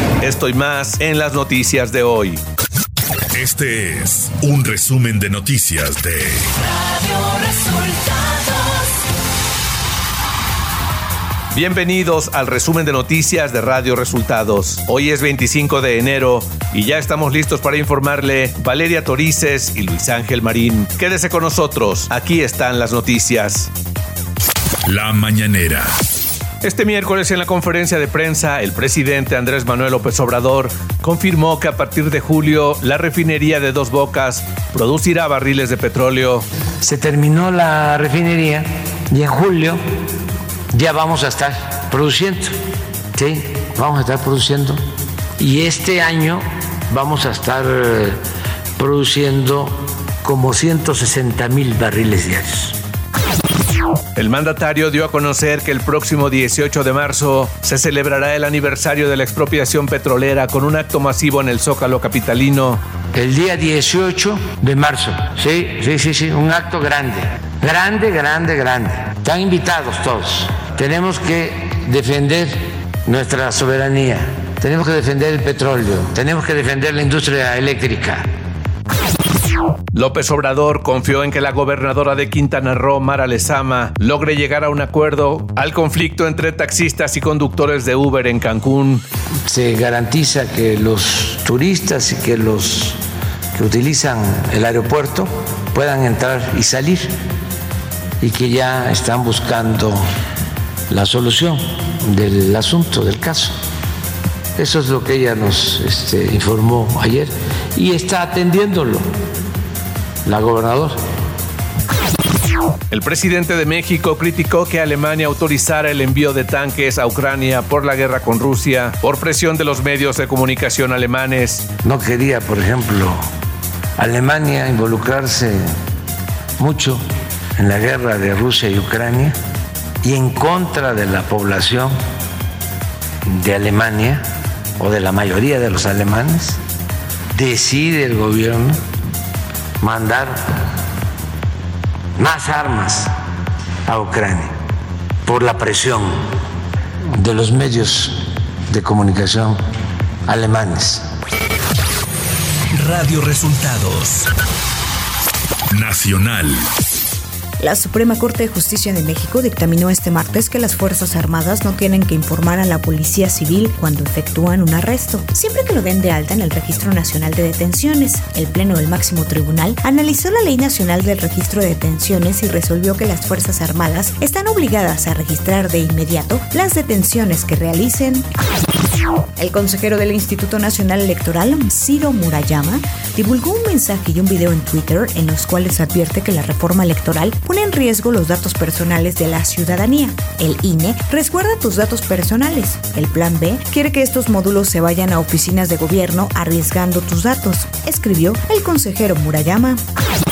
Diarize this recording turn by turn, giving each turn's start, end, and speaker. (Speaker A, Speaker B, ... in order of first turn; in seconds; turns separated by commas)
Speaker A: 0.2-2.4, Speaker B: 3.3-6.4, Speaker A: 6.8-8.8, Speaker A: 11.5-23.7, Speaker B: 24.9-25.9, Speaker A: 26.6-36.5, Speaker C: 36.8-39.8, Speaker C: 40.7-42.6, Speaker C: 43.1-44.8, Speaker C: 45.4-48.2, Speaker C: 48.8-52.8, Speaker A: 54.2-62.8, Speaker C: 63.1-78.3, Speaker A: 79.9-89.0, Speaker C: 89.5-93.0, Speaker C: 93.5-97.1, Speaker C: 98.2-100.0, Speaker C: 100.9-103.6, Speaker C: 104.6-109.1, Speaker C: 110.3-111.0, Speaker A: 112.9-121.7, Speaker C: 121.8-123.2, Speaker C: 124.0-125.6, Speaker C: 126.6-127.0, Speaker C: 127.6-129.4, Speaker C: 130.0-131.9, Speaker C: 133.3-134.2, Speaker C: 134.8-136.6, Speaker C: 137.3-138.8, Speaker C: 139.8-140.6, Speaker C: 142.2-143.1, Speaker C: 143.9-144.6, Speaker C: 145.2-146.3, Speaker C: 147.2-149.6, Speaker C: 150.3-151.1, Speaker A: 152.7-154.3, Speaker B: 155.7-156.6, Speaker D: 157.6-178.3, Speaker D: 179.4-199.8